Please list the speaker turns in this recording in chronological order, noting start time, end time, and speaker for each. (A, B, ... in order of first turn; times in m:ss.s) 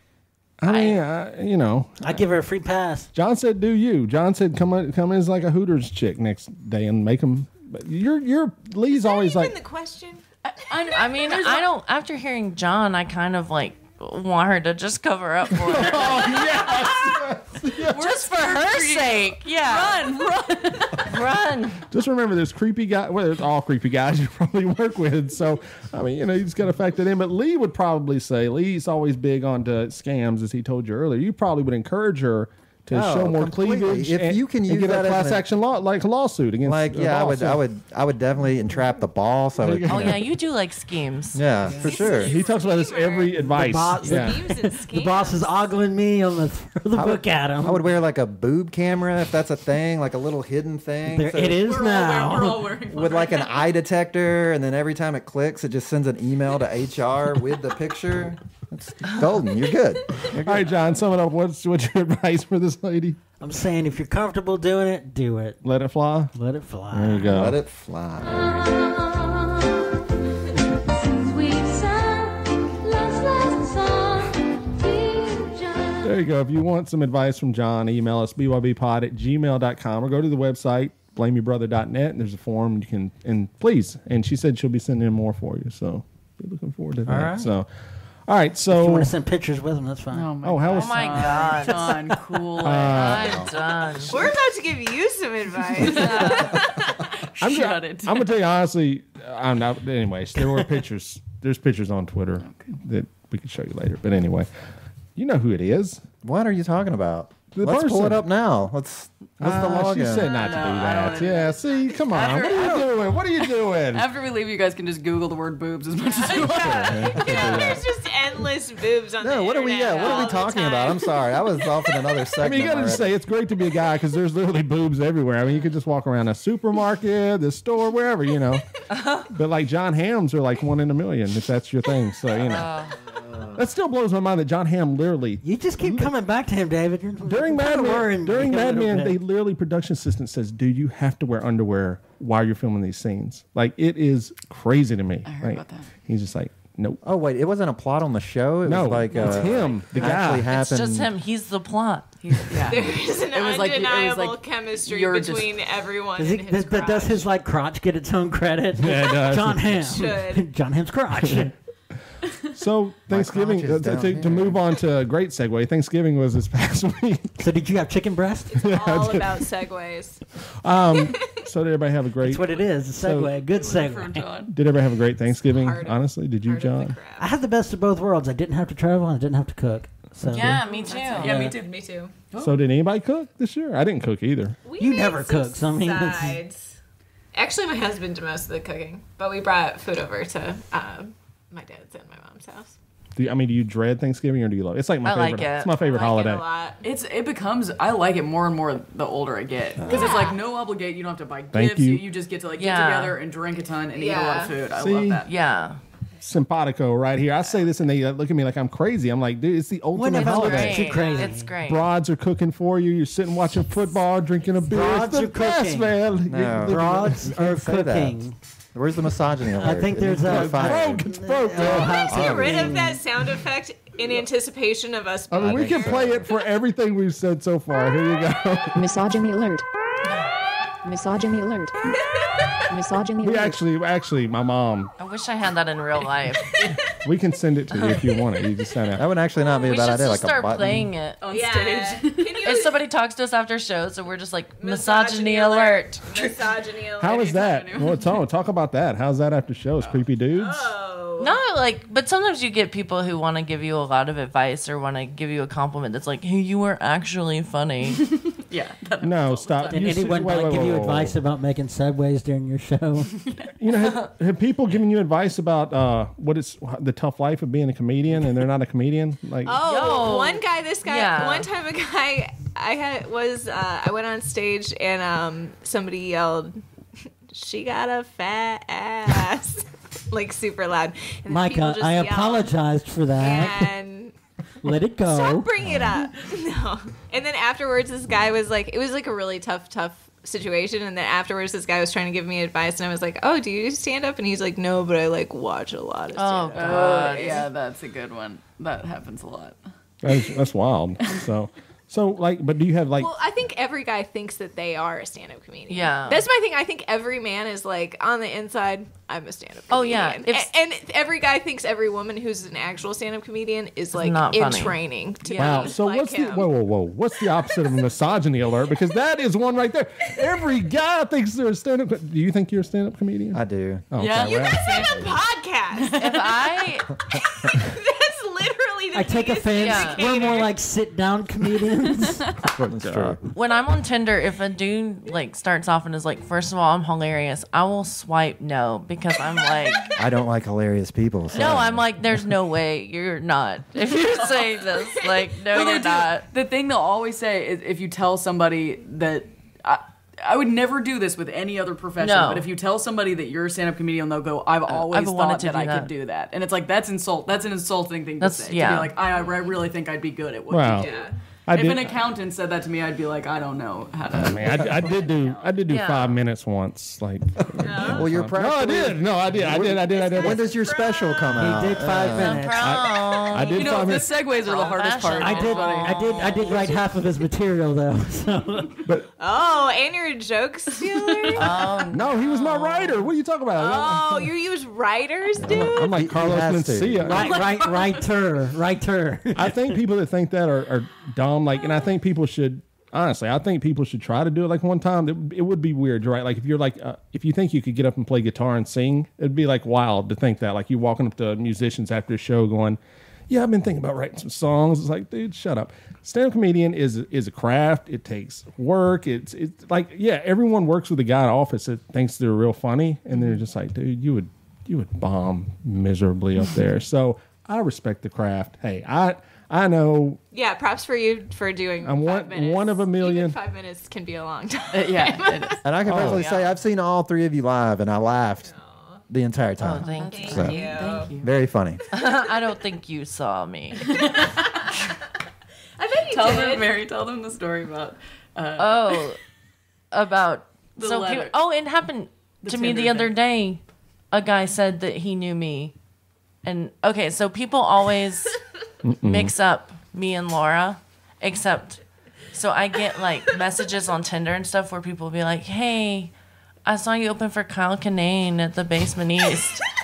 0:00.6-0:02.2 A
0:00.7-0:01.0 B
0:02.0-0:03.1 C
0:03.1-0:09.6 A
0:08.9-0:10.2 D
0:10.4-0:11.7 E
0:10.9-0:16.4 B
0:15.5-0:18.0 A
0:16.3-0:16.9 E
0:17.9-0:21.1 E
0:17.9-0:20.1 B
0:21.0-0:21.8 B
0:21.9-0:37.6 A
0:32.9-0:35.4 F
0:36.6-0:40.2 F
0:39.6-0:40.2 A
0:39.9-0:41.4 B
0:41.3-0:42.4 F
0:41.8-0:44.4 A
0:41.9-0:45.8 D
0:43.4-0:47.8 C
0:47.0-0:51.6 F
0:51.0-0:52.6 C
0:51.6-0:53.5 E
0:52.9-1:00.8 F
1:00.3-1:03.2 A
1:03.4-1:05.6 C
1:05.6-1:06.3 A
1:06.3-1:07.4 C
1:06.9-1:07.6 A
1:07.3-1:08.6 F
1:08.3-1:09.8 B
1:10.9-1:16.0 B
1:16.0-1:27.7 A
1:27.1-1:27.5 C
1:28.3-1:29.1 A
1:28.7-1:30.3 C
1:30.1-1:33.3 E
1:30.4-1:31.4 A
1:30.7-1:32.0 B
1:32.6-1:33.4 A
1:32.8-1:34.1 B
1:32.9-1:33.5 F
1:34.1-1:37.1 D
1:35.8-1:36.6 E
1:37.4-1:38.3 E
1:37.4-1:44.5 A
1:42.4-1:42.8 E
1:45.2-1:46.0 A
1:46.2-1:50.3 F
1:47.5-1:48.2 A
1:49.4-1:54.1 A
1:50.2-1:52.3 D
1:50.3-1:57.1 E
1:56.0-2:02.3 D
1:56.3-1:57.8 A
1:56.8-1:57.7 F
1:59.2-2:03.2 F
1:59.9-2:00.5 E
2:02.4-2:08.6 A
2:08.9-2:09.3 B
2:09.3-2:12.7 A
2:12.4-2:13.0 B
2:13.5-2:16.1 A
2:15.4-2:19.2 C
2:17.3-2:27.0 A
2:25.2-2:25.9 E
2:27.0-2:31.1 F
2:28.6-2:30.5 A
2:29.1-2:30.0 E
2:30.5-2:32.1 B
2:32.2-2:35.6 E
2:32.6-2:37.3 D
2:36.2-2:41.6 C
2:38.8-2:40.1 A
2:39.9-2:40.4 D
2:41.2-2:41.5 A
2:42.6-2:47.3 A
2:43.1-2:44.6 F
2:47.4-2:48.5 C
2:48.5-2:50.2 D
2:48.6-2:49.4 A
2:50.6-2:53.3 A
2:50.9-2:51.3 D
2:52.2-2:54.2 C
2:53.4-2:54.6 E
2:54.5-2:57.0 A
2:55.3-2:57.3 D
2:57.2-3:00.6 C
3:00.3-3:01.5 B
3:00.4-3:02.2 D
3:00.6-3:01.8 E
3:02.3-3:02.6 E
3:02.4-3:04.6 A
3:04.6-3:06.7 D
3:04.8-3:06.4 C
3:07.3-3:12.7 D
3:13.2-3:16.4 A
3:15.0-3:15.8 B
3:15.8-3:16.8 D
3:16.8-3:25.3 E
3:19.9-3:20.4 D
3:21.5-3:22.0 A
3:22.6-3:23.2 B
3:23.9-3:24.6 D
3:24.8-3:25.2 A
3:25.3-3:25.8 B
3:26.2-3:30.9 A
3:29.9-3:31.5 C
3:30.1-3:31.8 B
3:30.8-3:31.3 D
3:31.6-3:37.2 A
3:34.7-3:36.0 C
3:36.3-3:41.0 F
3:36.6-3:38.3 C
3:39.6-3:43.0 C
3:40.2-3:42.1 A
3:42.0-3:46.4 D
3:42.1-3:42.8 F
3:45.3-3:48.8 A
3:45.4-3:46.3 F
3:48.7-3:49.6 G
3:50.8-3:51.9 G
3:51.9-3:52.6 D
3:52.7-3:53.6 G
3:53.2-3:54.9 A
3:55.0-3:56.6 B
3:57.0-3:59.0 A
3:57.7-3:58.1 B
3:58.9-4:00.9 F
3:59.6-4:01.2 B
4:01.2-4:02.4 E
4:01.3-4:02.8 D
4:02.4-4:06.0 B
4:04.6-4:07.3 D
4:07.0-4:10.7 A
4:07.0-4:08.2 E
4:10.3-4:11.4 D
4:11.2-4:18.0 B
4:18.0-4:20.2 E
4:19.0-4:21.2 A
4:19.7-4:23.1 C
4:23.2-4:23.5 E
4:23.6-4:29.6 A
4:29.4-4:36.6 D
4:29.6-4:31.5 B
4:37.3-4:42.5 D
4:41.3-4:43.7 C
4:43.2-4:44.1 D
4:44.6-4:45.5 C
4:45.0-4:57.5 D
4:56.1-4:57.5 B
4:56.5-4:59.7 E
5:00.0-5:03.1 A
5:03.0-5:16.5 D
5:05.7-5:06.3 B
5:09.7-5:10.5 B
5:13.9-5:15.7 B
5:15.4-5:24.9 A
5:23.3-5:24.6 F
5:24.0-5:25.1 E
5:24.8-5:26.0 D
5:25.7-5:26.3 E
5:26.0-5:26.9 B
5:27.1-5:30.5 D
5:28.9-5:32.2 C
5:29.6-5:30.0 B
5:32.0-5:32.4 E
5:32.6-5:33.2 F
5:32.7-5:33.2 A
5:33.3-5:39.9 B
5:40.0-5:41.9 F
5:41.3-5:46.3 B
5:43.8-5:44.7 E
5:45.5-6:05.6 E
5:52.0-5:52.5 B
5:54.7-5:55.9 B
5:58.2-5:59.0 B
6:00.5-6:00.9 A
6:00.8-6:01.1 D
6:01.5-6:02.0 A
6:04.1-6:10.5 A
6:05.7-6:06.2 B
6:07.6-6:12.4 F
6:07.6-6:08.0 D
6:09.6-6:11.5 D
6:11.4-6:12.6 C
6:12.1-6:16.7 B
6:12.6-6:14.1 A
6:13.5-6:16.8 E
6:15.2-6:18.7 C
6:19.2-6:22.1 D
6:20.9-6:21.5 E
6:21.4-6:23.0 B
6:21.9-6:24.3 A
6:23.6-6:26.0 D
6:25.4-6:27.1 F
6:25.4-6:27.3 A
6:27.0-6:29.8 C
6:27.1-6:28.1 E
6:29.4-7:00.2 A
7:00.3-7:06.3 D
7:01.8-7:03.4 A
7:04.7-7:05.6 E
7:05.6-7:08.5 F
7:05.8-7:06.3 A
7:06.2-7:06.5 B
7:08.4-7:09.0 D
7:09.1-7:10.6 F
7:09.6-7:10.7 B
7:09.9-7:11.3 E
7:10.0-7:11.1 D
7:11.2-7:11.8 F
7:11.9-7:13.9 B
7:13.8-7:14.7 E
7:15.8-7:16.7 D
7:16.0-7:19.1 E
7:18.6-7:19.2 B
7:19.9-7:23.6 B
7:20.8-7:21.3 E
7:22.4-7:23.1 E
7:24.1-7:25.7 B
7:26.4-7:28.4 B
7:28.8-7:29.3 A
7:29.0-7:31.8 B
7:32.3-7:36.1 B
7:36.6-7:39.7 B